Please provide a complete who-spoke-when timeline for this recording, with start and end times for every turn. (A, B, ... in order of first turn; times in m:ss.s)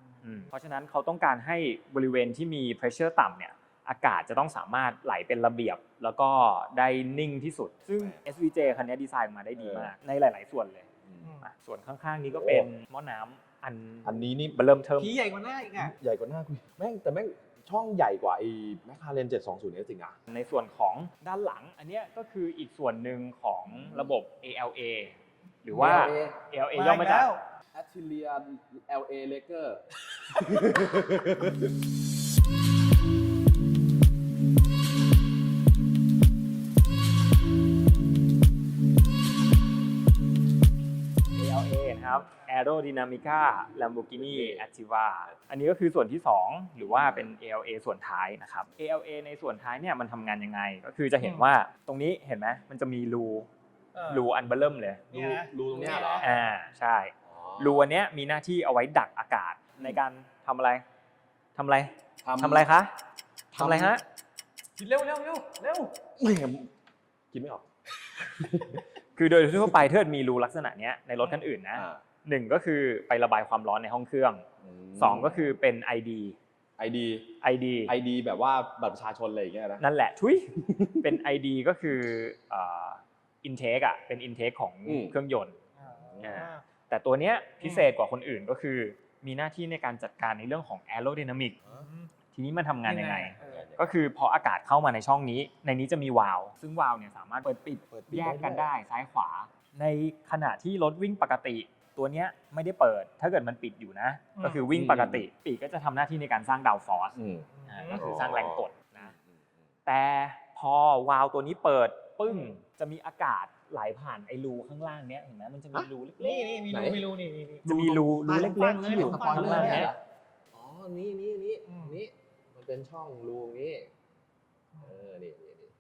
0:00.2-0:10.8 A
0:09.6-0:09.9 B
0:11.0-0:11.3 B
0:11.2-0:11.5 C
0:11.4-0:15.2 A
0:12.3-0:12.7 B
0:14.0-0:14.6 B
0:15.0-0:16.0 C
0:15.7-0:20.2 B
0:20.3-0:27.3 A
0:23.7-0:24.1 B
0:25.7-0:26.4 B
0:26.7-0:27.4 C
0:27.7-0:31.6 B
0:41.3-0:53.5 A
0:44.1-0:44.7 B
0:46.9-0:47.3 B
0:51.2-0:51.5 C
0:53.9-0:54.3 C
0:54.0-0:55.0 A
0:55.1-0:56.3 B
0:55.1-0:56.3 C
0:56.2-1:00.8 A
0:57.2-0:57.9 B
1:01.6-1:02.9 A
1:02.2-1:02.7 B
1:03.5-1:04.0 B
1:03.5-1:04.0 A
1:04.8-1:05.9 C
1:06.2-1:06.7 B
1:07.3-1:08.8 B
1:09.2-1:14.4 A
1:11.7-1:12.0 B
1:14.6-1:15.5 B
1:15.0-1:16.4 A
1:16.8-1:17.3 B
1:17.4-1:17.9 A
1:17.8-1:19.8 B
1:19.8-1:25.6 A
1:20.6-1:21.2 B
1:24.8-1:25.2 B
1:25.8-1:26.6 C
1:25.9-1:26.5 B
1:26.2-1:31.6 A
1:27.6-1:27.9 C
1:31.7-1:32.1 C
1:32.3-1:47.2 A
1:32.8-1:33.7 C
1:33.4-1:33.9 B
1:37.9-1:38.7 B
1:44.4-1:44.6 C
1:44.7-1:45.3 B
1:47.2-1:49.6 B
1:47.5-1:48.0 C
1:47.7-1:49.1 A
1:49.8-1:56.6 A
1:56.2-1:59.9 C
1:56.7-1:57.0 B
1:57.6-1:59.9 A
1:57.7-2:00.0 B
2:00.5-2:03.9 B
2:01.7-2:02.0 C
2:04.8-2:05.7 B